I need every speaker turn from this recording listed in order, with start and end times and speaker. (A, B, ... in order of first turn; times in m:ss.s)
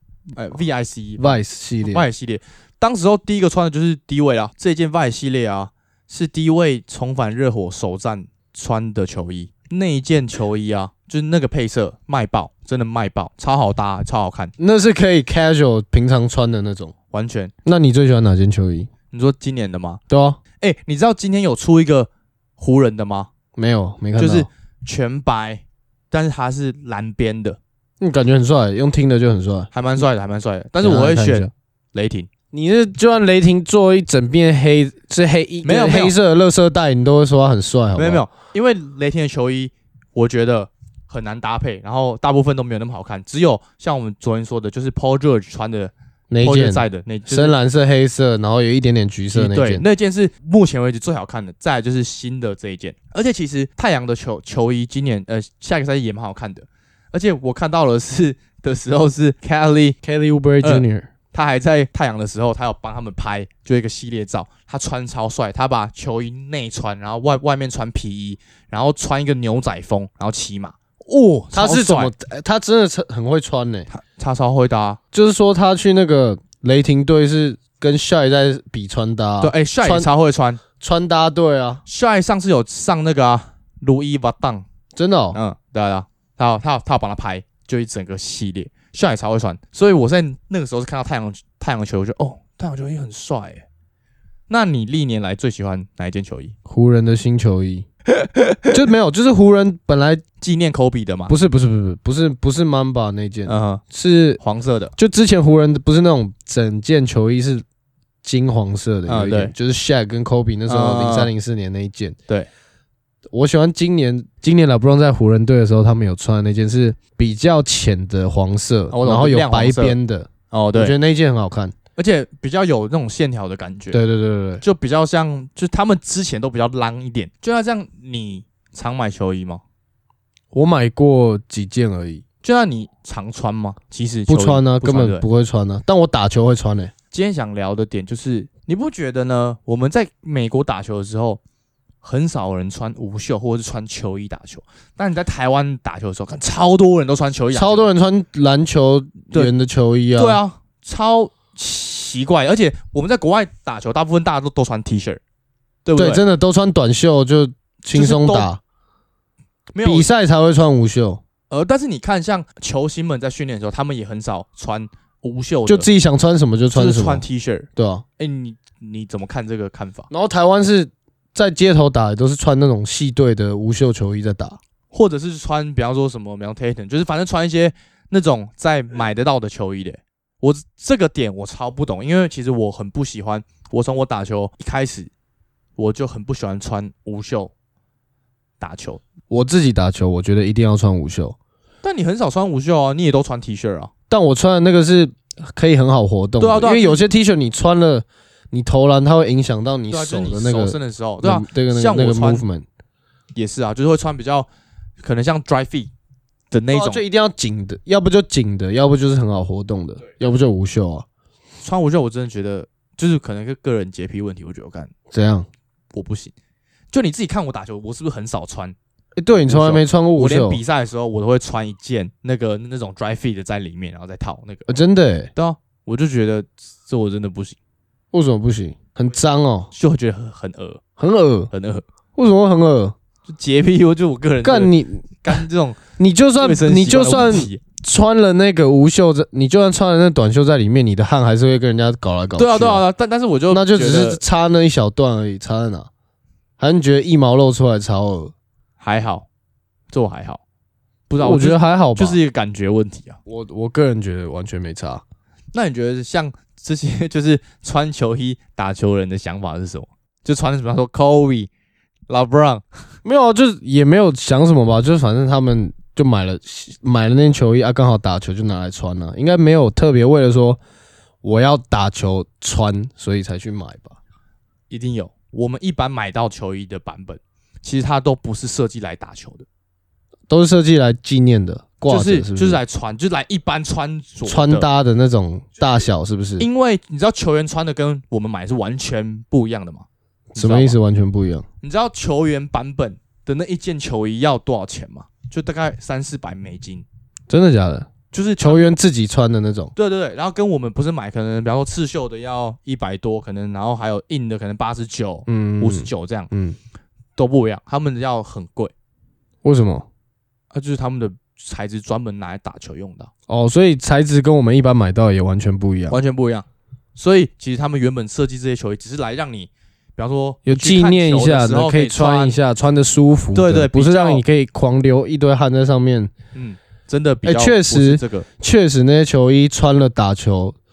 0:00.3-0:14.5 A
0:01.2-0:02.0 B
0:14.6-0:16.9 B
0:17.1-0:17.5 A
0:17.6-0:18.9 B
0:19.1-0:20.0 A
0:20.1-0:20.4 B
0:20.6-0:23.3 A
0:23.6-0:24.5 B
0:24.2-0:27.6 A
0:28.0-0:29.7 B
0:29.7-0:32.3 A
0:30.8-0:31.5 B
0:32.5-0:38.2 B
0:35.6-0:36.1 A
0:38.0-0:47.5 A
0:46.3-0:49.8 B
0:49.3-1:00.0 A
1:00.0-1:01.1 B
1:00.6-1:12.1 A
1:11.5-1:13.9 B
1:13.9-1:15.0 A
1:15.1-1:20.1 B
1:19.4-1:20.6 A
1:20.8-1:21.8 B
1:21.9-1:24.6 A
1:24.9-1:25.4 B
1:25.3-1:33.6 A
1:34.5-1:36.5 A
1:36.7-1:37.8 B
1:38.2-1:38.7 A
1:38.7-1:40.2 B
1:40.4-1:41.3 A
1:41.3-1:44.4 B
1:43.4-1:43.8 A
1:44.4-1:44.9 A
1:45.0-1:47.6 B
1:48.2-1:52.2 B
1:49.1-1:49.5 A
1:50.7-1:51.3 A
1:53.3-2:01.7 B
1:58.9-2:00.0 A
2:00.5-2:01.0 A
2:02.0-2:04.0 A
2:03.9-2:04.6 B
2:04.6-2:09.6 A
2:10.5-2:12.2 B
2:12.4-2:15.2 A
2:14.3-2:16.9 B
2:17.1-2:21.4 A
2:22.0-2:27.9 A
2:27.5-2:30.4 B
2:30.2-2:35.2 A
2:35.8-2:36.2 A
2:36.0-2:38.6 B
2:37.9-2:38.5 A
2:39.7-2:40.1 A
2:39.8-2:41.2 B
2:41.5-2:45.9 A
2:45.7-2:47.2 B
2:46.7-2:50.1 A
2:47.8-2:48.0 B
2:50.1-2:54.6 B
2:54.9-3:05.1 A
3:05.8-3:07.5 A
3:08.6-3:09.0 A
3:09.3-3:11.4 B
3:11.8-3:13.9 A
3:14.1-3:22.6 B
3:16.4-3:17.0 A
3:19.9-3:22.4 A
3:23.3-3:24.5 A
3:25.0-3:25.9 A
3:26.5-3:27.0 A
3:26.7-3:31.0 B
3:31.6-3:34.9 A
3:35.1-3:35.5 B
3:35.9-3:36.3 A
3:36.9-3:38.8 A
3:39.2-3:40.6 B
3:39.3-3:44.7 A
3:44.7-3:45.3 B
3:45.3-3:47.6 A
3:48.1-3:49.7 B
3:49.7-3:50.8 A
3:51.0-3:51.5 B
3:51.5-3:51.8 A
3:52.2-3:52.9 B
3:53.3-3:55.8 A
3:54.4-3:55.4 B
3:56.0-4:02.8 B
3:56.4-3:57.6 A
4:02.4-4:04.2 A
4:03.5-4:05.9 B
4:06.6-4:08.3 B
4:08.8-4:09.3 A
4:09.9-4:10.4 A
4:11.1-4:13.2 A
4:11.2-4:12.2 B
4:13.3-4:15.0 B
4:15.5-4:21.5 A
4:22.1-4:22.6 A
4:23.0-4:30.6 B
4:31.2-4:34.0 B
4:34.7-4:39.4 A
4:40.3-4:42.6 B
4:41.9-4:44.7 A
4:44.2-4:46.5 B
4:46.4-4:49.8 A
4:50.3-4:51.4 B
4:50.4-4:50.8 A
4:51.6-4:56.8 A
4:57.3-4:59.7 B
4:58.1-4:58.7 A
4:59.8-5:06.3 A
5:05.3-5:06.6 B
5:07.2-5:08.7 A
5:09.4-5:09.9 B
5:10.5-5:13.1 A
5:13.3-5:16.0 B
5:15.9-5:22.4 A
5:20.4-5:26.1 B
5:23.3-5:24.2 A
5:26.3-5:28.3 A
5:27.2-5:30.6 B